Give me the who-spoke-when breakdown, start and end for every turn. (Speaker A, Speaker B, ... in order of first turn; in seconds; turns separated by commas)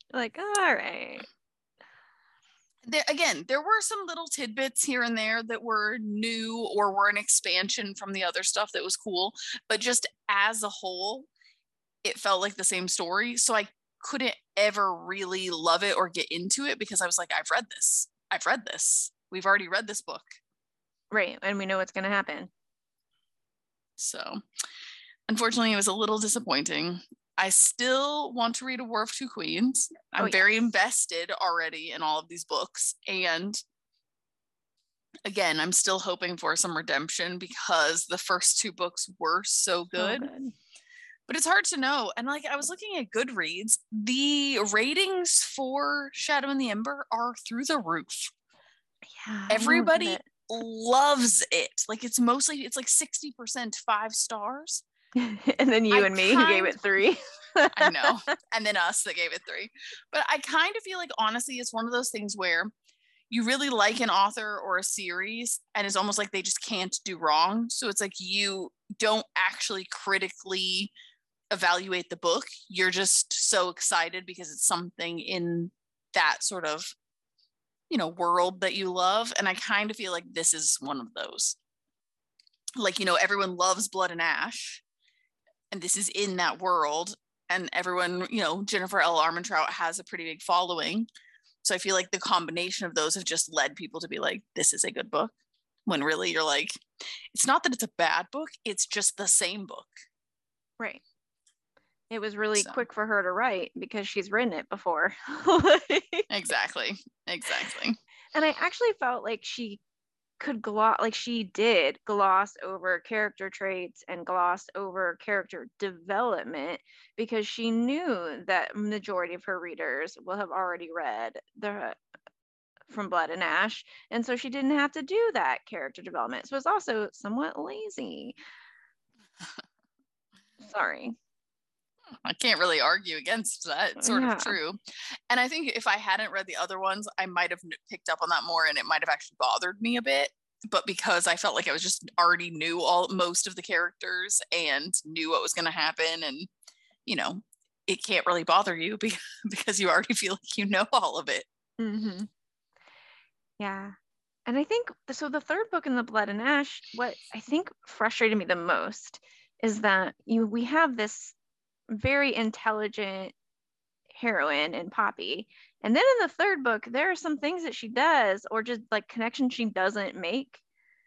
Speaker A: 0.1-1.3, Speaker B: 2.8-11.3, Speaker B: 12.0-20.4, Speaker A: 21.1-22.5, Speaker B: 24.0-24.4, Speaker B: 25.3-33.6, Speaker A: 30.2-30.4, Speaker B: 35.3-40.3, Speaker A: 40.0-40.5, Speaker B: 41.3-48.3, Speaker A: 49.1-50.2, Speaker B: 49.5-54.8, Speaker A: 55.2-58.3, Speaker B: 55.9-56.8, Speaker B: 57.8-62.7, Speaker B: 63.3-70.9, Speaker B: 71.5-76.9, Speaker B: 77.9-81.6, Speaker B: 82.8-84.8, Speaker B: 85.7-91.1, Speaker B: 91.6-95.3, Speaker B: 95.9-96.8, Speaker B: 97.3-99.9, Speaker A: 102.1-106.3, Speaker B: 102.6-102.8, Speaker B: 106.3-108.0, Speaker A: 108.3-109.8, Speaker A: 110.4-122.0, Speaker A: 122.9-128.3, Speaker B: 129.4-129.7, Speaker A: 130.6-131.2, Speaker B: 132.1-134.8, Speaker A: 134.0-134.6, Speaker B: 135.3-146.5, Speaker B: 147.1-151.5, Speaker A: 151.8-152.3, Speaker A: 153.6-153.9, Speaker A: 154.5-161.3, Speaker A: 161.9-163.3, Speaker A: 164.2-170.6